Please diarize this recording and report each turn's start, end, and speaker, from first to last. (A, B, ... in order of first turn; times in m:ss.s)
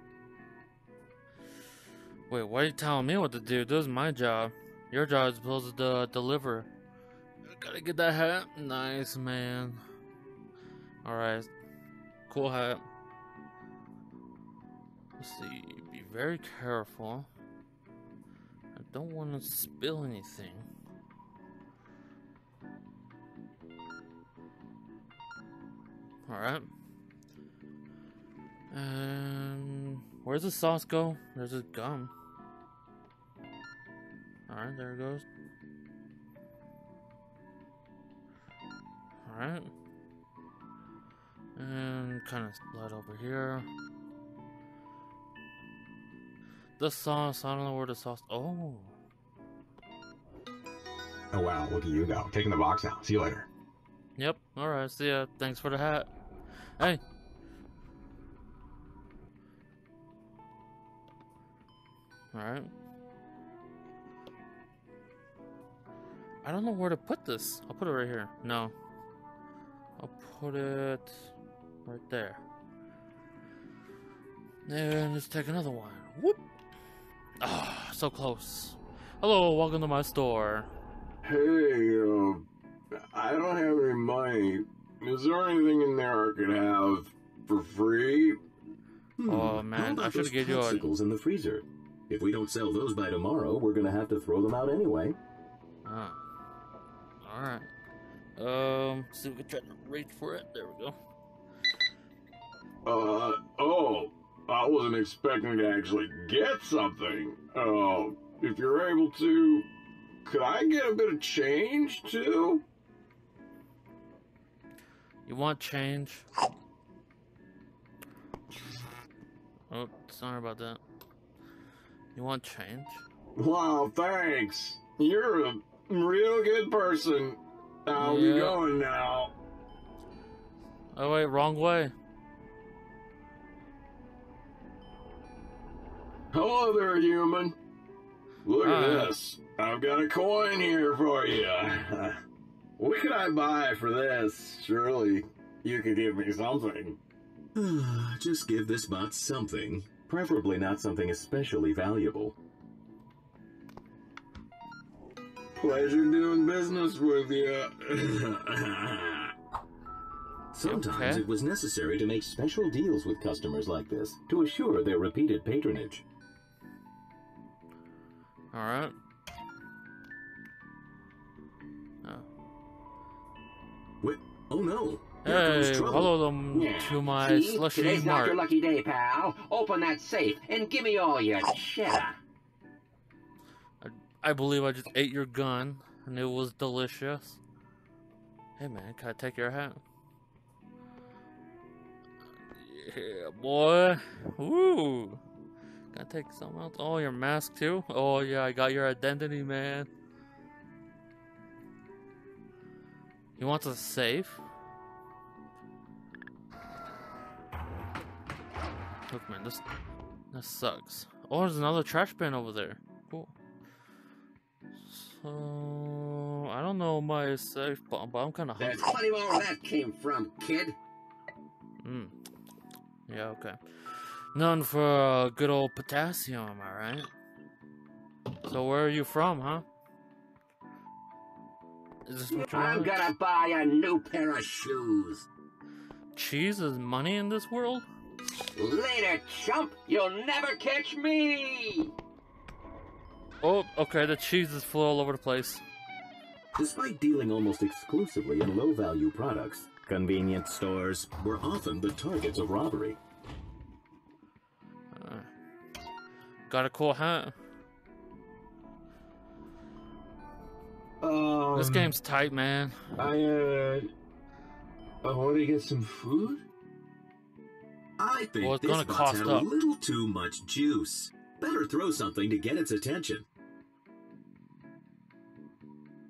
0:02.3-0:06.7 A
0:07.5-0:09.8 A
0:11.0-0:11.5 A
0:12.3-0:12.8 A
0:15.2-0:17.3 A
0:18.7-0:20.7 A
0:26.3-0:26.7 A
0:28.7-0:32.1 A
0:34.5-0:35.2 A
0:39.2-0:39.7 A
0:41.6-0:43.7 A
0:46.8-0:48.9 A
0:51.3-0:53.5 B
0:54.2-0:56.1 A
1:02.3-1:02.7 A
1:06.4-1:08.7 A
1:10.0-1:11.3 A
1:11.8-1:12.4 A
1:14.6-1:16.4 A
1:17.4-1:20.7 A
1:21.2-1:28.4 C
1:29.2-1:35.2 D
1:29.3-1:30.9 A
1:35.8-1:36.2 A
1:37.2-1:37.7 A
1:38.4-1:41.0 A
1:42.8-1:49.7 C
1:50.2-1:52.6 C
1:55.3-1:56.2 A
1:59.7-2:00.8 A
2:02.1-2:03.0 A
2:03.4-2:09.3 C
2:07.9-2:08.6 A
2:10.9-2:11.9 A
2:16.3-2:17.6 C
2:18.4-2:22.2 C
2:18.6-2:19.1 A
2:22.8-2:27.0 C
2:27.5-2:32.4 D
2:35.6-2:39.3 C
2:40.5-2:46.0 D
2:40.6-2:41.2 A
2:48.5-2:48.9 A
2:54.0-2:56.1 D
2:55.2-2:58.4 A
2:56.5-3:02.2 E
3:03.8-3:07.4 A
3:08.6-3:09.8 A
3:12.5-3:15.2 A
3:15.9-3:19.9 A
3:23.4-3:24.4 A
3:29.1-3:29.6 A
3:30.3-3:33.3 A
3:34.8-3:38.9 A
3:38.6-3:40.8 E
3:41.8-3:42.1 A
3:43.1-3:47.1 A
3:48.4-3:49.6 A
3:52.0-3:53.0 A
3:52.3-3:55.3 E
3:56.2-3:57.8 A
3:58.5-4:01.9 E
4:03.4-4:05.6 A
4:06.5-4:13.0 D
4:14.9-4:15.3 A
4:16.5-4:17.3 A
4:21.0-4:22.0 F
4:21.5-4:22.9 A
4:23.0-4:23.9 F
4:25.0-4:26.4 F
4:28.0-4:33.3 D
4:28.4-4:29.5 A